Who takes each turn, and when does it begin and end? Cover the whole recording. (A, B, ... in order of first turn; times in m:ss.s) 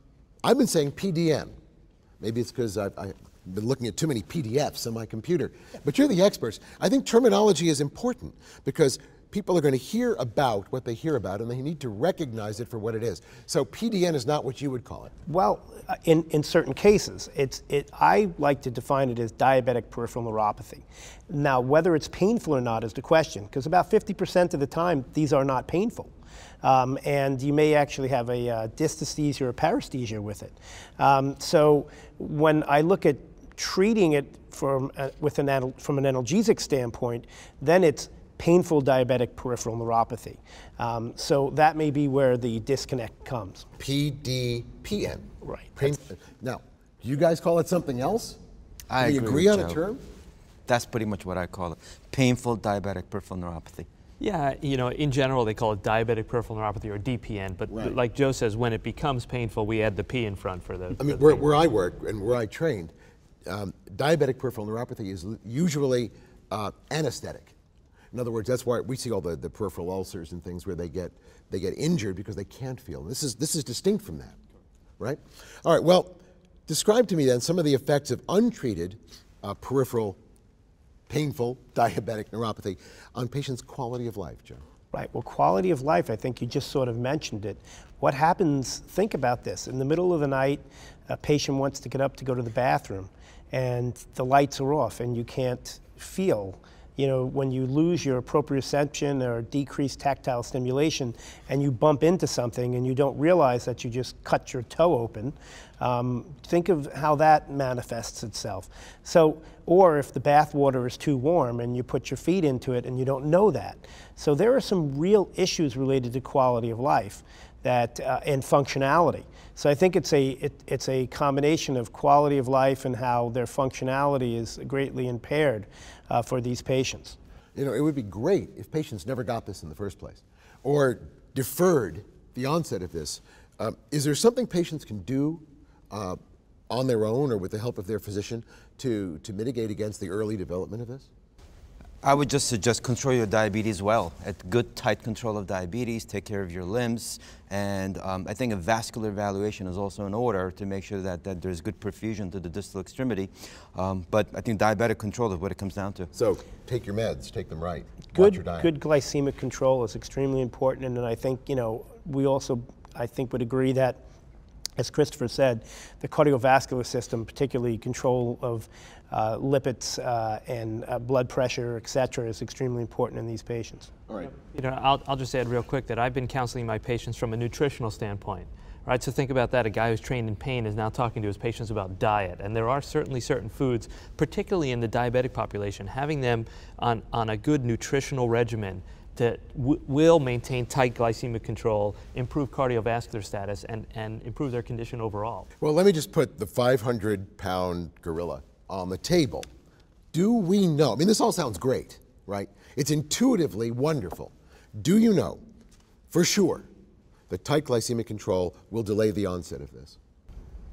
0:00.4-0:01.5 A
0:02.2-0:15.1 A
0:15.3-0:43.7 B
0:43.8-0:48.4 A
0:45.4-0:45.9 B
0:48.9-0:49.8 C
0:49.0-0:50.0 A
0:50.7-0:53.9 C
0:54.2-1:01.5 D
0:57.7-0:58.0 A
1:01.0-1:02.9 A
1:03.4-1:07.5 A
1:08.1-1:14.4 A
1:15.0-1:20.2 A
1:21.1-1:24.6 A
1:24.9-2:07.2 B
2:07.6-2:16.2 A
2:16.7-2:21.1 A
2:22.0-2:36.1 C
2:36.1-2:38.7 A
2:38.1-2:44.0 B
2:44.8-2:53.9 B
2:54.5-3:15.5 D
3:15.6-3:19.5 A
3:20.1-3:25.4 A
3:26.1-3:26.7 A
3:27.3-3:30.0 A